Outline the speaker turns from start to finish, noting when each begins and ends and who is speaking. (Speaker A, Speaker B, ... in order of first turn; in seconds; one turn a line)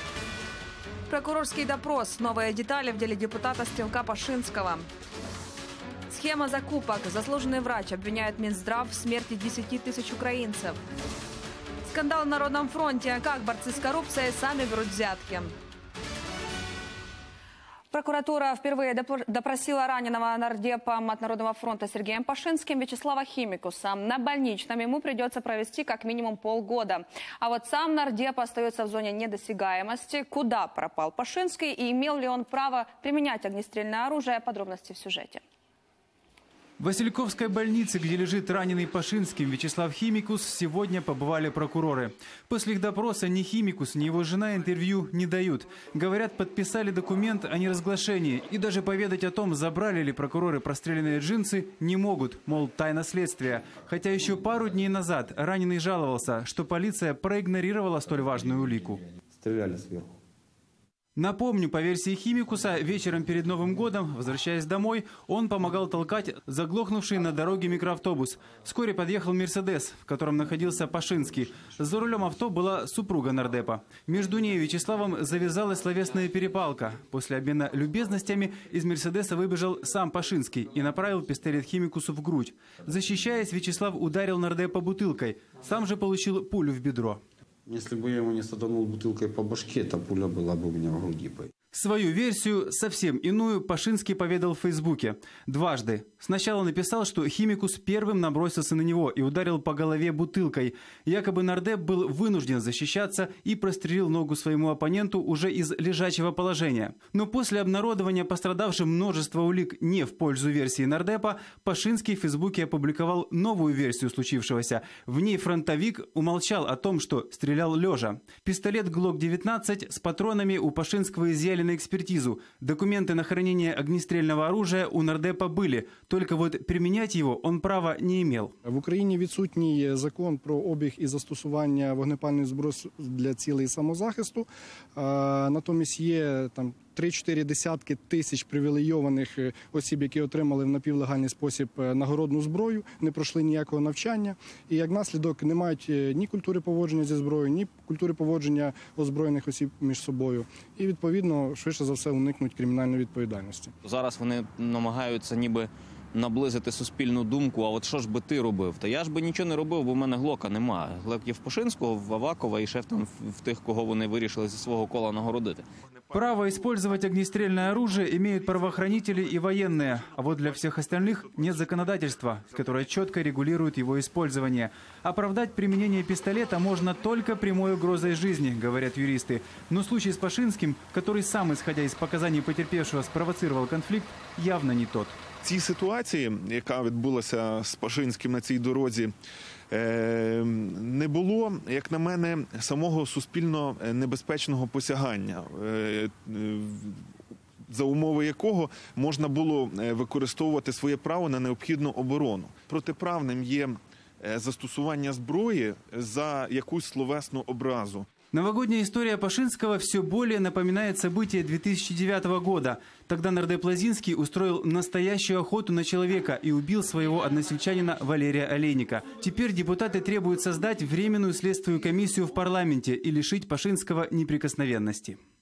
Speaker A: 1.1-4.9
Speaker A: 6.1-10.8
Speaker A: 11.8-15.5
Speaker A: 17.9-35.4
Speaker B: 36.8-59.0
Speaker C: 59.4-60.1
Speaker B: 61.1-87.2
Speaker C: 87.7-91.5
Speaker B: 91.7-128.5
Speaker D: 128.7-153.7
Speaker E: 153.8-165.7
Speaker B: 166.1-185.2
Speaker F: 185.4-189.2
Speaker F: 189.7-208.1
Speaker B: 208.3-225.2